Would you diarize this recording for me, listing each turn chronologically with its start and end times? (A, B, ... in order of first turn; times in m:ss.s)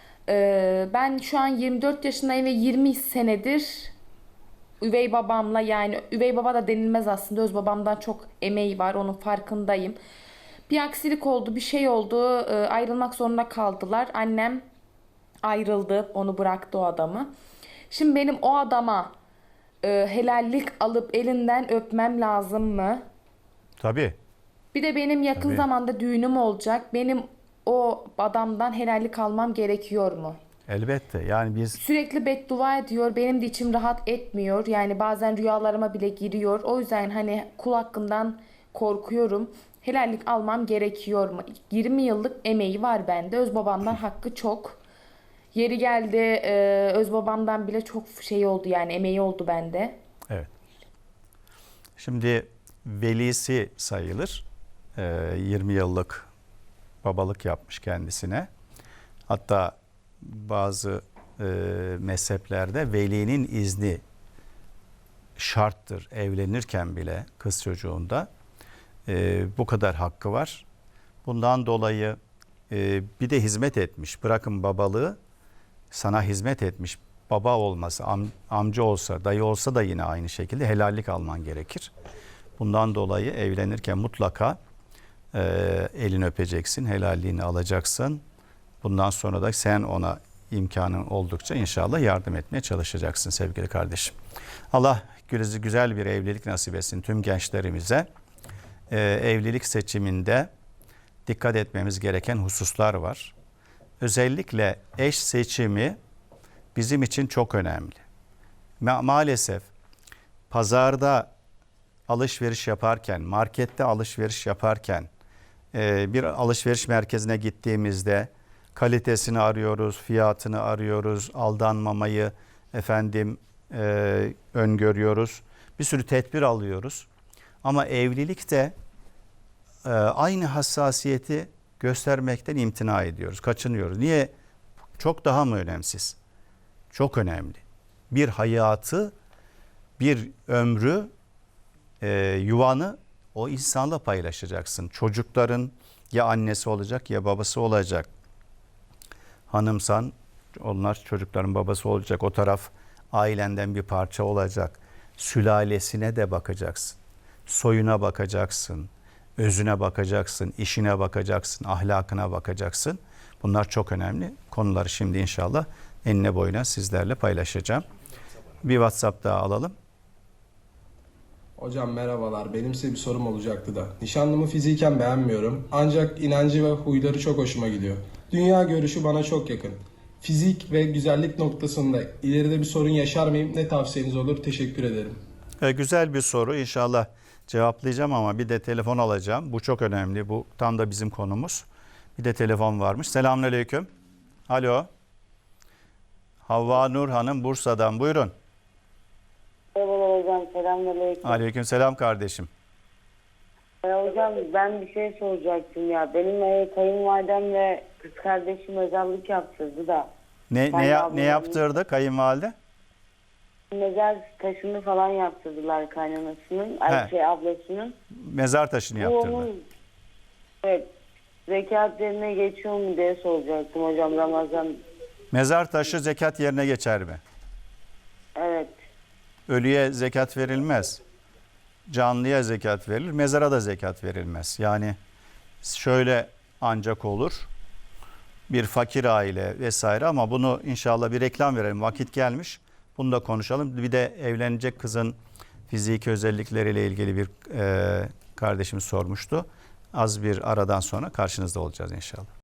0:00.3-0:03.9 A
0:04.8-0:10.0 A
0:10.7-0:14.6 A
0:15.4-0:17.3 A
0:17.9-0:19.1 A
0:19.8-0:23.0 A
0:23.8-0:24.2 B
0:24.7-0:30.4 A
0:25.4-0:25.7 B
0:30.7-0:31.8 B
0:31.8-0:44.8 A
0:45.5-0:50.0 A
0:52.0-0:54.4 B
0:55.0-0:56.3 B
0:57.0-0:58.5 B
0:59.3-1:04.0 B
1:05.4-1:08.3 B
1:09.1-1:10.6 B
1:11.2-1:12.2 B
1:12.7-1:15.2 B
1:15.9-1:21.9 B
1:22.6-1:24.6 B
1:25.3-1:28.2 B
1:28.8-1:34.2 B
1:34.7-1:38.1 B
1:38.9-1:40.5 B
1:41.2-1:43.3 B
1:44.0-1:46.0 B
1:46.8-1:48.0 B
1:48.8-1:49.7 B
1:50.5-1:51.3 B
1:52.1-1:55.1 B
1:55.7-2:07.1 B
2:07.6-2:08.7 B
2:09.8-2:14.3 B
2:15.0-2:16.2 B
2:16.9-2:19.1 B
2:20.0-2:21.1 B
2:22.0-2:28.1 B
2:29.5-2:47.8 B
2:48.6-2:49.7 B
2:51.6-3:05.2 C
3:05.6-3:13.9 B
3:14.5-3:14.9 B
3:16.4-3:18.3 B
3:19.7-3:21.4 D
3:21.2-3:22.5 B
3:23.8-3:30.1 D
3:30.5-3:32.5 B
3:30.7-3:31.6 D
3:33.7-3:37.9 D
3:38.1-3:39.5 B
3:39.0-3:39.6 D
3:41.5-3:44.7 D
3:45.3-3:47.2 B
3:48.3-3:48.7 D
3:49.5-3:51.0 B
3:51.9-3:55.0 B
3:55.6-3:57.5 B
3:58.5-4:05.2 B
4:05.7-4:12.3 B